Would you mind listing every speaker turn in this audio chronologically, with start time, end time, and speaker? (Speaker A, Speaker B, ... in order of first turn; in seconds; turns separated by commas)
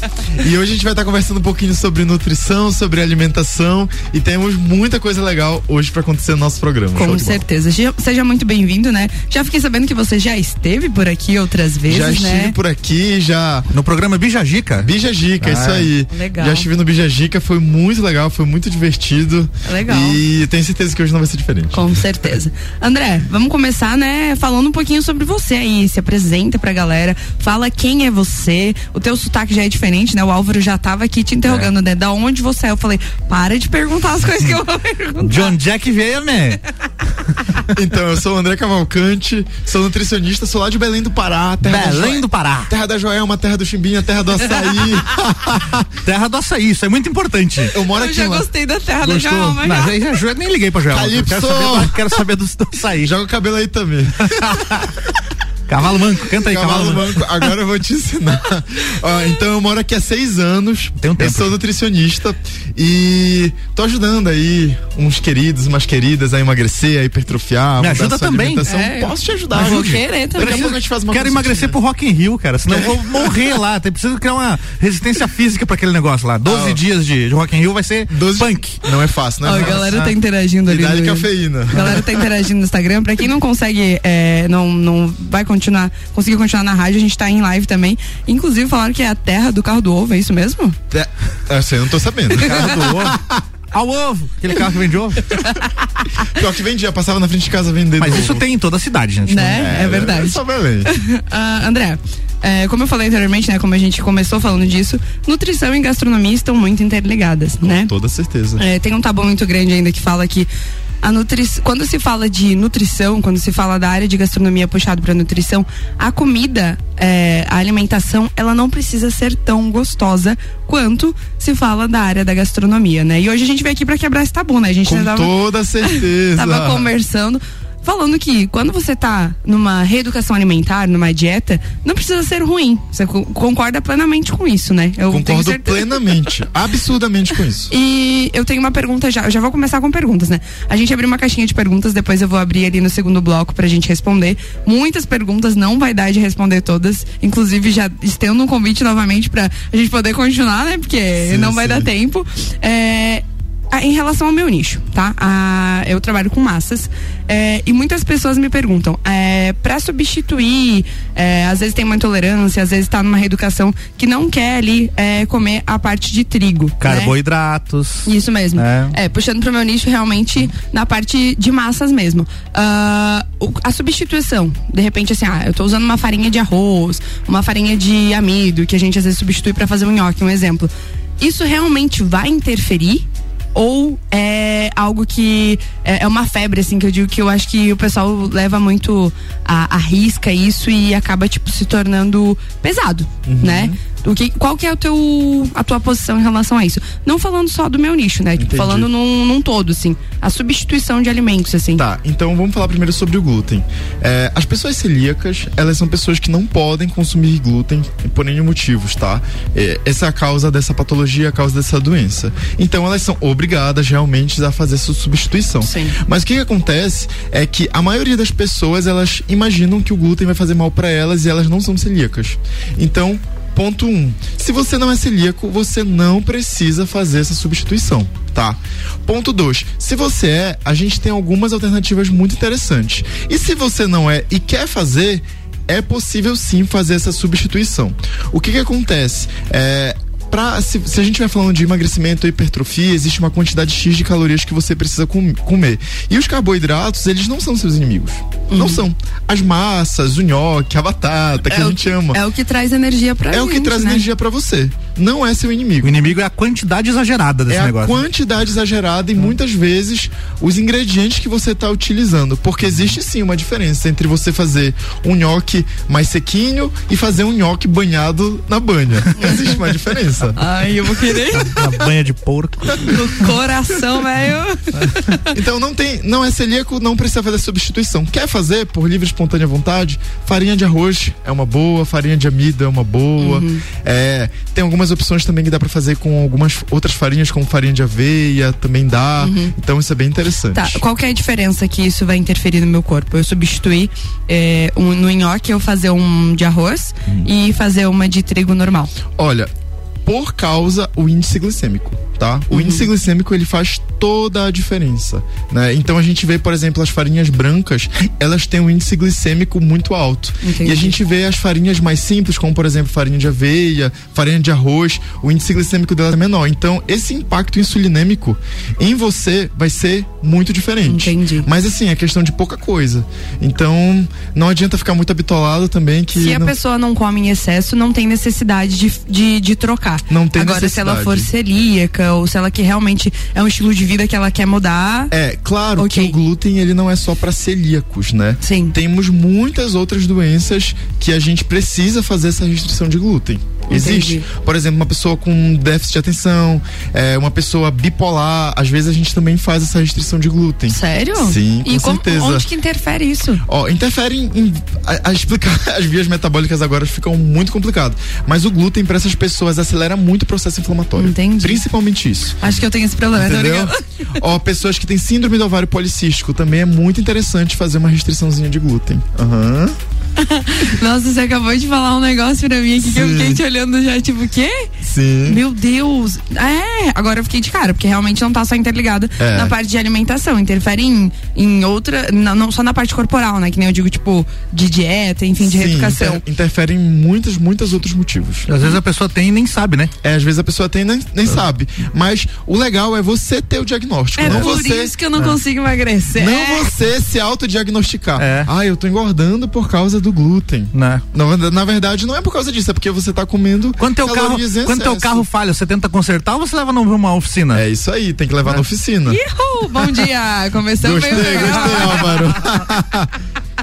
Speaker A: 0.3-7.4, Speaker B: 7.0-12.6, Speaker A: 11.9-13.7, Speaker C: 13.7-15.9, Speaker A: 14.8-21.9, Speaker B: 16.1-16.7, Speaker B: 19.6-20.2, Speaker B: 21.7-35.6, Speaker C: 31.4-31.7, Speaker C: 35.2-36.6, Speaker A: 37.7-45.8, Speaker C: 41.6-42.7, Speaker C: 46.0-47.8, Speaker A: 47.7-48.5, Speaker B: 47.9-50.0, Speaker C: 49.0-53.1, Speaker A: 50.9-52.0, Speaker A: 53.0-54.9, Speaker C: 54.2-54.9, Speaker C: 55.7-57.3, Speaker A: 56.3-71.8, Speaker C: 61.0-61.6, Speaker C: 67.8-68.6, Speaker B: 68.7-70.7, Speaker C: 69.5-78.8, Speaker A: 72.7-73.6, Speaker A: 76.5-76.8, Speaker A: 78.1-80.1, Speaker B: 79.4-90.8, Speaker C: 79.6-80.1, Speaker A: 80.7-82.3, Speaker A: 90.9-93.4, Speaker C: 92.4-95.3, Speaker A: 96.3-98.5, Speaker C: 98.0-99.7, Speaker B: 99.3-107.9, Speaker A: 99.5-100.9, Speaker A: 107.6-108.6, Speaker B: 108.6-110.5, Speaker B: 111.0-125.3, Speaker A: 124.9-126.9, Speaker B: 125.9-136.1, Speaker A: 135.1-137.7, Speaker B: 137.7-167.2, Speaker A: 151.2-151.9, Speaker C: 166.8-169.0, Speaker B: 168.1-201.8, Speaker A: 193.3-193.8, Speaker A: 198.4-198.9, Speaker A: 201.8-252.2, Speaker B: 215.6-215.9, Speaker B: 248.5-248.8, Speaker B: 251.5-254.1, Speaker A: 253.3-256.1, Speaker C: 255.8-258.0, Speaker A: 257.5-270.4, Speaker B: 270.4-271.8, Speaker C: 271.3-272.9, Speaker B: 272.7-275.4, Speaker A: 275.3-290.8, Speaker B: 283.2-283.6, Speaker B: 289.2-289.5, Speaker B: 290.5-298.9, Speaker A: 299.1-299.5, Speaker A: 300.1-326.6, Speaker B: 302.5-302.9, Speaker B: 310.4-311.0, Speaker B: 320.9-321.5, Speaker B: 326.1-335.1, Speaker A: 330.1-331.3, Speaker A: 335.1-352.5, Speaker B: 335.8-336.2, Speaker B: 338.4-338.8, Speaker B: 343.7-344.2, Speaker B: 350.7-353.4, Speaker A: 353.5-362.5, Speaker B: 361.0-361.6, Speaker B: 362.4-363.8, Speaker A: 363.1-369.8, Speaker B: 370.2-374.7, Speaker A: 372.8-373.4, Speaker A: 374.8-375.4, Speaker B: 375.3-386.2, Speaker A: 379.2-379.6, Speaker A: 385.4-388.5, Speaker C: 388.5-389.9, Speaker A: 390.0-395.0, Speaker B: 394.2-396.7, Speaker A: 396.1-405.3, Speaker C: 398.2-398.5, Speaker C: 400.7-401.0, Speaker C: 403.8-407.6, Speaker A: 407.5-409.2, Speaker B: 409.1-412.3, Speaker A: 410.8-413.1